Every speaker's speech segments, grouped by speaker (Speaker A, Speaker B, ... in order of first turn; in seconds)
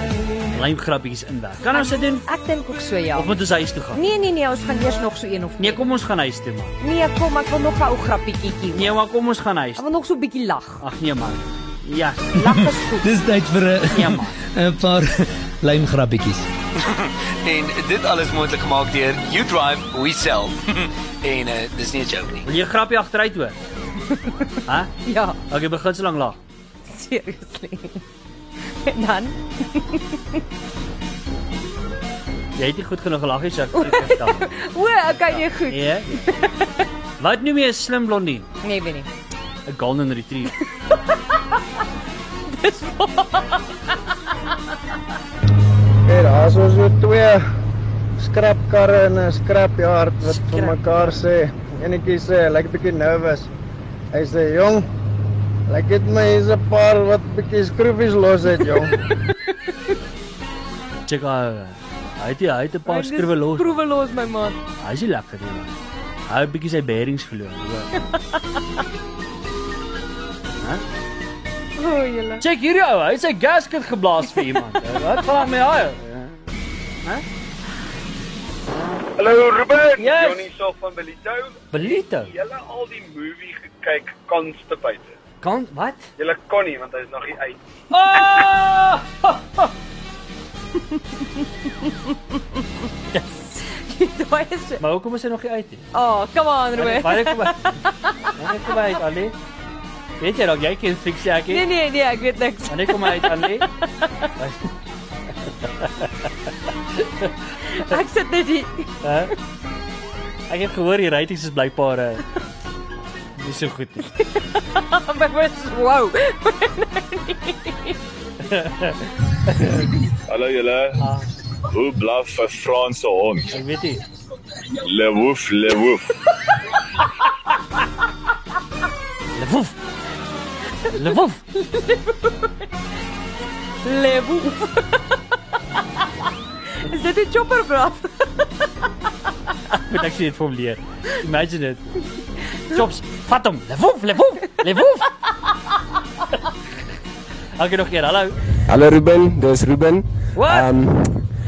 Speaker A: 0.5-2.3, 3.1-4.0, 5.6-6.8, 8.7-9.9, 10.8-12.5, 13.9-14.4, 22.4-23.6, 24.6-24.9, 25.5-26.4, 32.6-34.5, 35.3-36.2, 37.2-38.5, 39.6-40.6, 50.2-51.2, 61.1-63.8, 64.8-67.9, 72.4-76.5, 78.7-79.1, 80.0-80.5, 81.7-82.3, 85.4-86.1, 87.9-89.7, 94.8-95.9, 96.8-97.8, 98.3-99.4, 100.2-101.7, 102.7-103.7, 104.4-104.7, 105.6-106.3, 106.9-107.4, 109.0-109.3, 110.5-112.2, 113.4-114.1, 118.5-119.9, 121.0-121.3, 123.5-124.0, 129.3-129.8, 130.9-131.4, 139.7-142.0, 142.7-145.2, 147.6-148.4, 150.3-150.8
Speaker B: 1.7-3.4, 3.9-5.8, 6.8-9.0, 9.8-10.8, 12.4-13.1, 24.1-24.5, 25.0-25.4, 26.9-28.0, 28.9-30.4, 33.7-36.9, 38.6-39.1, 40.6-41.6, 42.5-44.0, 62.9-64.6, 68.0-68.8, 71.8-72.4, 90.9-94.8, 95.9-98.7, 101.4-104.3, 107.7-109.3, 114.1-118.0, 131.5-132.7, 133.8-135.2, 136.8-139.1
Speaker C: 12.4-16.5
Speaker D: 16.9-22.4
Speaker E: 48.2-53.4, 54.1-54.8, 55.7-57.5, 58.1-58.9
Speaker F: 79.2-85.1, 86.2-87.6
Speaker G: 120.3-121.1, 121.7-123.6, 124.8-126.1
Speaker H: 148.7-151.1